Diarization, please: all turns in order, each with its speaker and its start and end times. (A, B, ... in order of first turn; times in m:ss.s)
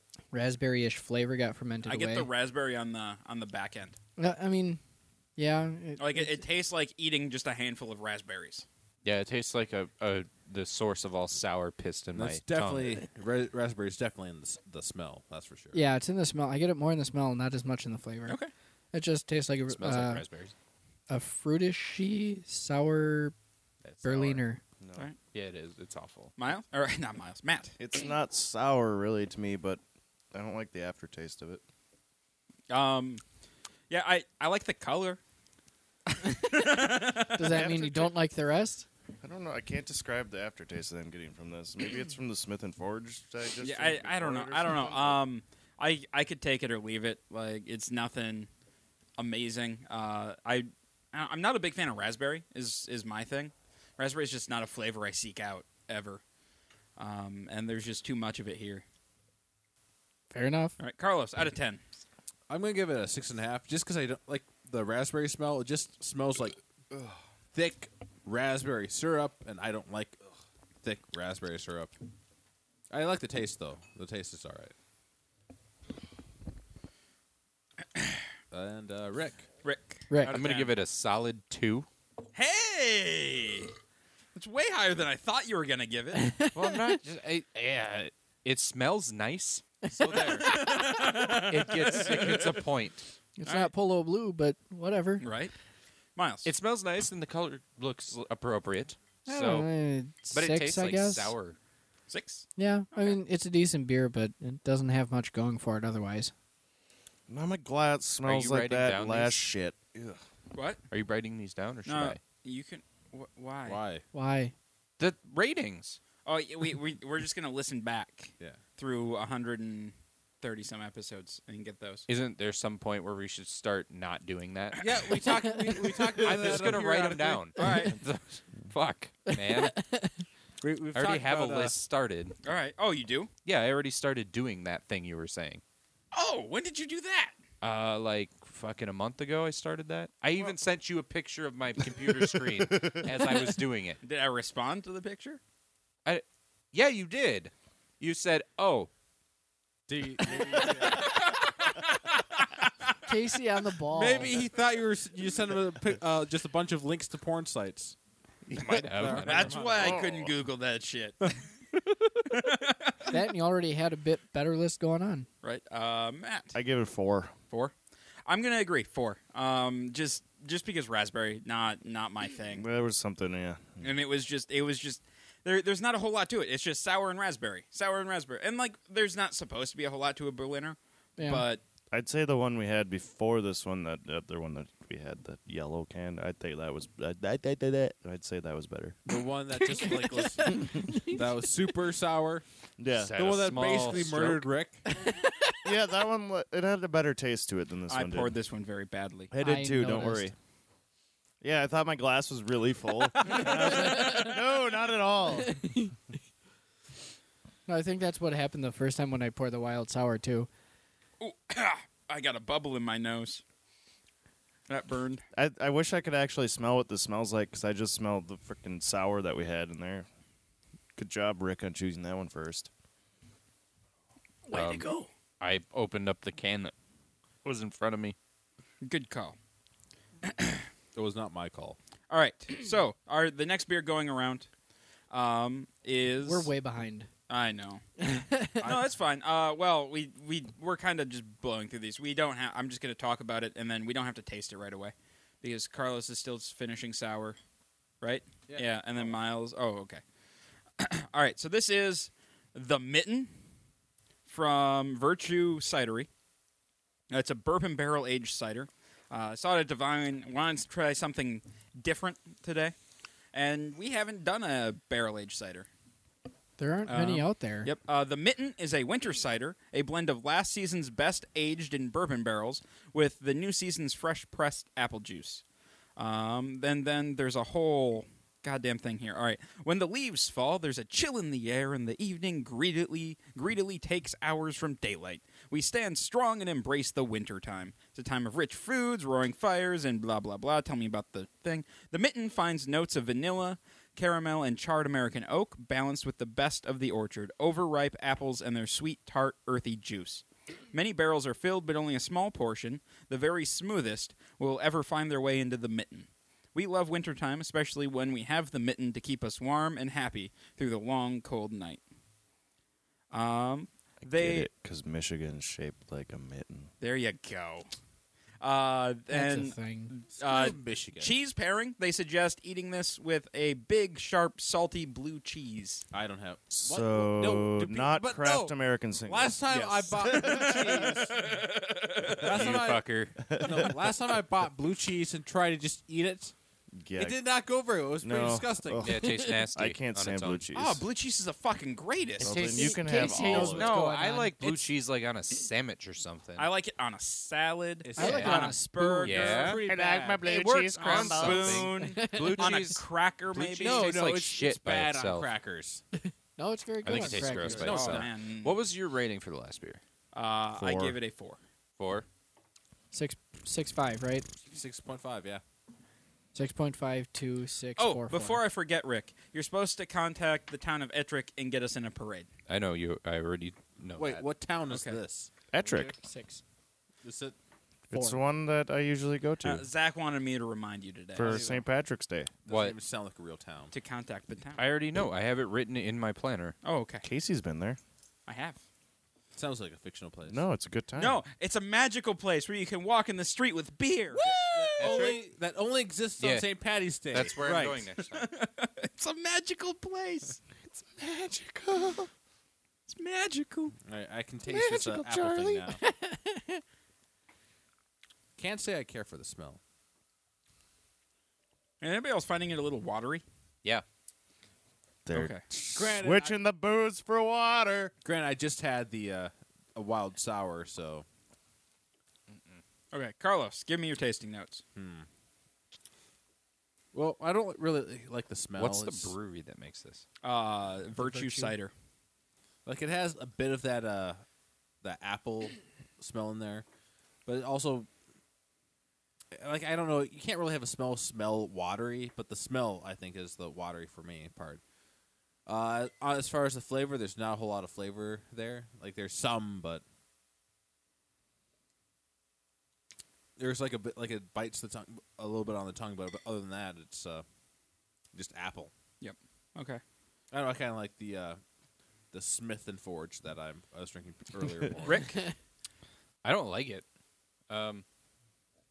0:00.3-0:02.3 A
0:01.8-0:04.0 B
0:04.2-0:04.8 A
0:05.4-0:06.4 A
0:06.0-0:08.6 B
0:09.0-0:13.0 C
0:12.1-0:15.8 D
0:15.7-0:18.4 A
0:18.9-0:20.2 A
0:19.7-0:20.5 C
0:21.1-0:23.3 A
0:23.8-0:24.4 C
0:24.0-0:24.6 A
0:24.8-0:25.1 E
0:25.3-0:26.3 C
0:26.4-0:27.7 B
0:27.8-0:29.8 E
0:30.3-0:31.6 E
0:32.7-0:33.2 B
0:33.9-0:35.2 B
0:36.2-0:38.1 B
0:37.3-0:38.8 A
0:39.2-0:45.2 E
0:43.6-0:48.5 B
0:49.2-0:56.2 B
0:57.0-0:58.8 B
1:00.3-1:00.8 A
1:00.8-1:01.8 B
1:02.5-1:06.6 D
1:06.9-1:07.2 E
1:07.5-1:10.2 D
1:10.8-1:11.9 D
1:12.9-1:14.7 D
1:17.9-1:18.2 B
1:18.5-1:19.5 D
1:19.6-1:20.7 B
1:20.1-1:20.4 A
1:20.3-1:21.9 C
1:22.3-1:23.7 B
1:24.3-1:26.4 B
1:26.1-1:26.8 A
1:26.5-1:33.0 C
1:29.8-1:30.9 A
1:30.4-1:32.6 B
1:33.4-1:35.2 A
1:33.4-1:33.7 B
1:35.2-1:35.5 B
1:36.2-1:36.5 B
1:36.4-1:39.7 C
1:39.2-1:41.3 A
1:40.3-1:41.6 C
1:42.1-1:43.2 B
1:42.6-1:46.3 A
1:47.3-1:50.2 E
1:48.2-1:49.5 C
1:50.5-1:50.8 B
1:50.9-1:52.2 C
1:51.8-1:53.8 B
1:53.6-1:54.0 D
1:54.1-1:54.5 A
1:55.0-1:56.0 C
1:56.2-2:02.0 B
2:02.1-2:04.9 C
2:04.8-2:07.5 D
2:05.9-2:09.8 C
2:07.6-2:08.0 B
2:09.3-2:10.2 A
2:10.6-2:11.7 D
2:10.9-2:12.4 C
2:12.4-2:13.3 B
2:13.4-2:15.6 C
2:16.1-2:17.3 B
2:17.6-2:24.0 C
2:22.6-2:23.0 E
2:24.0-2:25.4 B
2:26.0-2:28.9 C
2:29.9-2:31.2 D
2:30.4-2:31.8 B
2:33.0-2:34.4 A
2:33.9-2:38.0 D
2:38.5-2:39.6 C
2:38.6-2:40.0 D
2:39.1-2:41.4 B
2:39.7-2:40.3 E
2:42.3-2:43.2 B
2:43.1-2:45.3 A
2:45.4-2:46.6 B
2:46.5-2:47.3 E
2:48.2-2:52.6 B
2:52.5-2:53.9 E
2:53.8-3:01.6 B
3:01.2-3:01.5 A
3:01.9-3:09.0 E
3:09.1-3:12.4 D
3:09.6-3:11.4 A
3:12.8-3:13.1 E
3:13.0-3:14.4 C
3:13.2-3:14.8 D
3:15.0-3:15.3 A
3:15.6-3:18.3 E
3:17.9-3:19.3 B
3:19.3-3:20.3 E
3:19.4-3:20.3 A
3:21.4-3:25.7 E
3:23.5-3:24.4 A
3:25.5-3:25.9 A
3:27.7-3:30.5 A
3:31.2-3:33.4 B
3:34.7-3:35.2 B
3:35.3-3:40.0 E
3:41.0-3:42.7 E
3:44.5-3:44.9 C
3:44.6-3:44.9 B
3:45.4-3:46.7 C
3:47.4-3:48.2 C
3:48.8-3:49.4 B
3:50.2-3:50.6 B
3:50.9-3:51.8 D
3:52.1-3:54.5 B
3:55.1-3:56.5 B
3:56.2-3:57.1 A
3:57.3-3:58.1 B
3:58.0-3:58.7 A
3:58.6-4:07.4 B
4:08.0-4:10.0 B
4:08.5-4:09.1 D
4:10.8-4:13.3 B
4:14.2-4:16.1 B
4:17.1-4:22.7 B
4:23.3-4:25.7 B
4:26.6-4:27.7 A
4:26.9-4:35.4 B
4:36.0-5:11.8 B
5:13.1-5:14.5 B
5:14.0-5:16.7 E
5:16.8-5:17.7 B
5:18.4-5:25.8 B
5:19.1-5:19.9 A
5:20.2-5:21.1 D
5:25.9-5:31.3 D
5:26.5-5:30.7 E
5:29.5-5:32.4 B
5:32.2-5:32.8 D
5:32.2-5:33.2 C
5:33.2-5:33.8 E
5:33.4-5:36.3 D
5:36.7-5:37.2 E
5:37.0-5:39.0 D
5:38.0-5:40.8 E
5:38.8-5:40.5 C
5:40.5-5:42.8 B
5:42.2-5:43.8 E
5:42.2-5:44.6 A
5:43.1-5:46.5 C
5:46.4-5:49.6 B
5:47.8-5:50.3 D
5:48.0-5:49.1 A
5:48.0-5:48.4 C
5:49.0-5:49.6 C
5:49.6-5:51.7 E
5:50.2-5:55.3 C
5:50.8-5:53.9 B
5:51.8-5:52.5 A
5:53.4-5:55.8 D
5:56.4-5:57.8 A
5:56.8-5:59.8 C
5:56.9-5:58.1 D
5:57.6-5:58.6 B
6:00.1-6:01.4 B
6:00.6-6:01.0 E
6:01.8-6:02.0 C
6:02.9-6:04.3 A
6:04.5-6:05.4 D
6:06.3-6:08.4 A
6:07.8-6:12.3 B
6:12.5-6:14.2 C
6:14.0-6:15.8 D
6:14.7-6:15.0 B
6:15.5-6:15.9 E
6:15.6-6:16.4 A
6:17.0-6:17.4 D
6:17.9-6:19.6 E
6:17.9-6:18.2 A
6:19.4-6:21.5 B
6:21.1-6:22.3 E
6:21.2-6:21.6 D
6:22.4-6:23.7 D
6:22.5-6:22.8 C
6:23.7-6:24.6 B
6:24.6-6:26.6 C
6:26.6-6:27.0 B
6:27.0-6:27.8 E
6:28.3-6:28.6 B
6:29.3-6:30.4 D
6:30.3-6:31.2 E
6:31.0-6:35.2 B
6:34.2-6:37.7 D
6:34.8-6:35.2 C
6:36.2-6:36.5 C
6:37.1-6:38.3 C
6:37.4-6:40.4 B
6:40.7-6:42.1 E
6:42.9-6:43.7 B
6:43.8-6:45.8 D
6:44.5-6:45.7 E
6:45.7-6:46.6 A
6:48.4-6:49.6 D
6:51.8-6:53.2 B
6:55.0-6:57.9 E
6:55.1-6:55.4 B
6:55.7-6:56.4 D
6:58.0-7:01.0 D
7:02.9-7:04.6 B
7:04.7-7:05.1 D
7:06.9-7:09.1 D
7:08.6-7:10.0 C
7:10.2-7:11.7 B
7:11.0-7:11.6 A
7:12.6-7:14.2 D
7:14.8-7:16.6 D
7:17.2-7:17.9 D
7:19.3-7:24.6 D
7:25.4-7:29.8 D
7:33.4-7:37.2 D
7:38.1-7:38.7 D
7:39.0-7:39.8 B
7:40.3-7:41.4 D
7:42.1-7:45.1 D
7:44.8-7:45.2 B
7:46.2-7:46.8 C
7:47.5-7:47.8 C